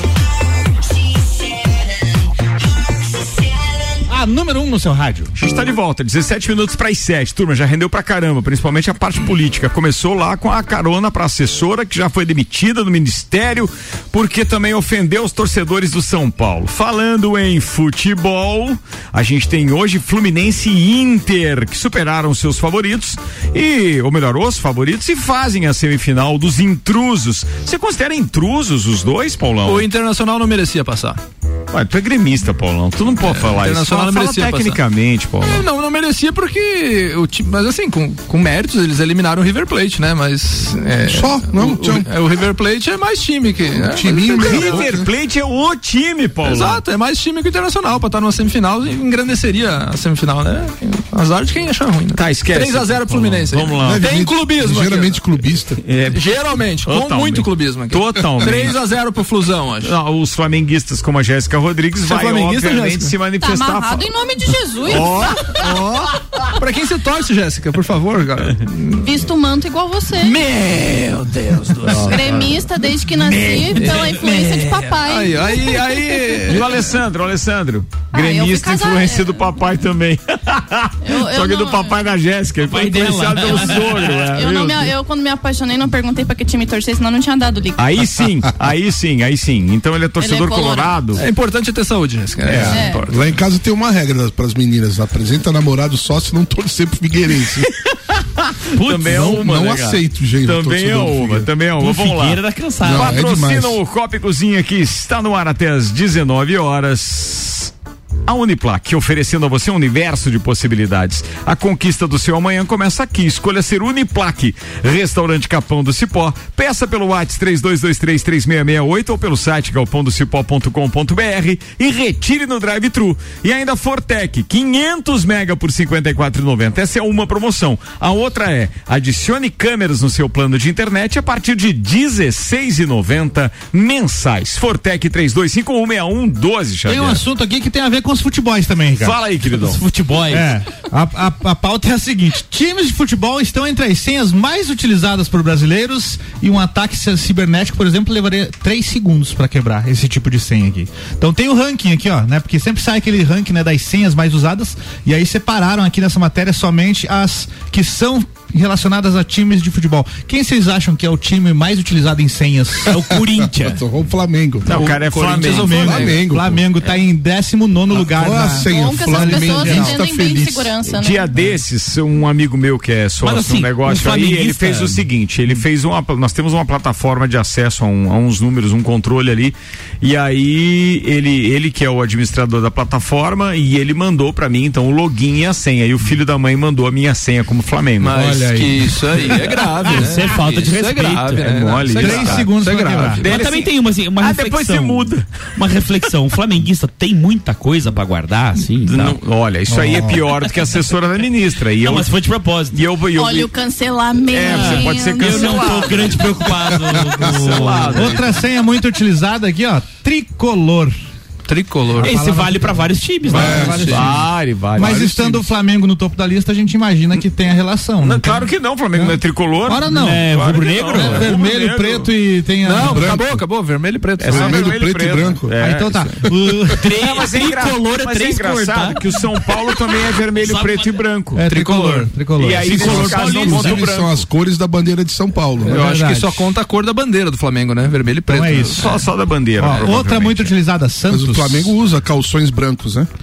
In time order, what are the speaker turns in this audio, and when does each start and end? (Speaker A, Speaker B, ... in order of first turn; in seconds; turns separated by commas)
Speaker A: 4.1-5.3, Speaker B: 5.3-29.9, Speaker C: 29.6-31.2, Speaker B: 31.7-35.7, Speaker C: 33.2-34.8, Speaker C: 35.5-44.9, Speaker D: 41.1-42.1, Speaker D: 43.8-45.1, Speaker B: 44.4-46.8, Speaker C: 46.4-55.2, Speaker B: 52.1-54.1, Speaker D: 53.8-55.8, Speaker B: 55.9-56.3, Speaker C: 56.1-60.0, Speaker B: 56.8-58.8, Speaker B: 59.8-64.1, Speaker C: 62.0-63.2, Speaker E: 63.4-65.2, Speaker B: 64.8-66.0, Speaker C: 65.5-69.1, Speaker E: 69.0-70.4, Speaker C: 70.2-72.5, Speaker B: 71.8-72.2, Speaker E: 72.0-76.4, Speaker C: 73.4-76.9, Speaker B: 76.5-85.0, Speaker E: 78.1-79.5, Speaker E: 81.0-82.0, Speaker F: 82.6-84.2, Speaker E: 84.2-87.8, Speaker B: 87.8-91.2, Speaker E: 90.2-91.2, Speaker C: 91.2-93.3, Speaker B: 92.4-92.8, Speaker D: 92.5-97.7, Speaker E: 92.7-93.1, Speaker F: 98.7-99.4, Speaker B: 98.8-107.7, Speaker D: 99.0-101.5, Speaker F: 101.8-103.2, Speaker D: 102.8-103.8, Speaker B: 108.3-137.2, Speaker A: 136.9-139.2, Speaker B: 139.0-139.8, Speaker F: 139.5-140.5, Speaker A: 140.3-163.1, Speaker F: 162.9-163.8, Speaker D: 163.6-164.8, Speaker B: 164.7-165.9, Speaker C: 164.7-166.2, Speaker A: 165.4-170.0, Speaker D: 165.6-166.6, Speaker D: 167.9-170.7, Speaker E: 168.6-171.4, Speaker B: 170.9-188.3, Speaker F: 173.2-175.1, Speaker C: 188.0-193.5, Speaker A: 188.1-189.3, Speaker F: 189.9-191.5, Speaker B: 191.4-192.5, Speaker A: 192.0-193.2, Speaker B: 193.2-195.4, Speaker F: 193.2-199.2, Speaker B: 198.9-202.1, Speaker A: 199.7-200.2, Speaker F: 201.8-202.8, Speaker B: 202.7-203.5, Speaker E: 203.1-206.1, Speaker B: 204.3-206.3, Speaker F: 204.4-208.2, Speaker A: 207.2-211.0, Speaker B: 207.3-208.3, Speaker C: 211.5-212.1, Speaker A: 212.0-214.2, Speaker F: 212.0-213.9, Speaker D: 213.3-214.1, Speaker C: 213.4-214.0, Speaker B: 213.9-215.1, Speaker A: 214.8-223.2, Speaker D: 214.8-215.5, Speaker B: 218.0-222.1, Speaker F: 219.9-221.3, Speaker C: 222.6-224.8, Speaker D: 222.8-223.4, Speaker B: 224.2-226.2, Speaker D: 224.3-225.5, Speaker A: 225.5-226.9, Speaker F: 226.8-229.0, Speaker B: 226.9-231.8, Speaker F: 230.4-231.0, Speaker A: 231.3-233.1, Speaker C: 231.5-232.1, Speaker B: 232.4-234.3, Speaker F: 232.6-233.9, Speaker D: 232.7-235.8, Speaker C: 235.7-238.9, Speaker A: 235.7-236.5, Speaker A: 238.3-239.1, Speaker B: 238.8-240.5, Speaker A: 239.6-241.8, Speaker D: 241.1-243.1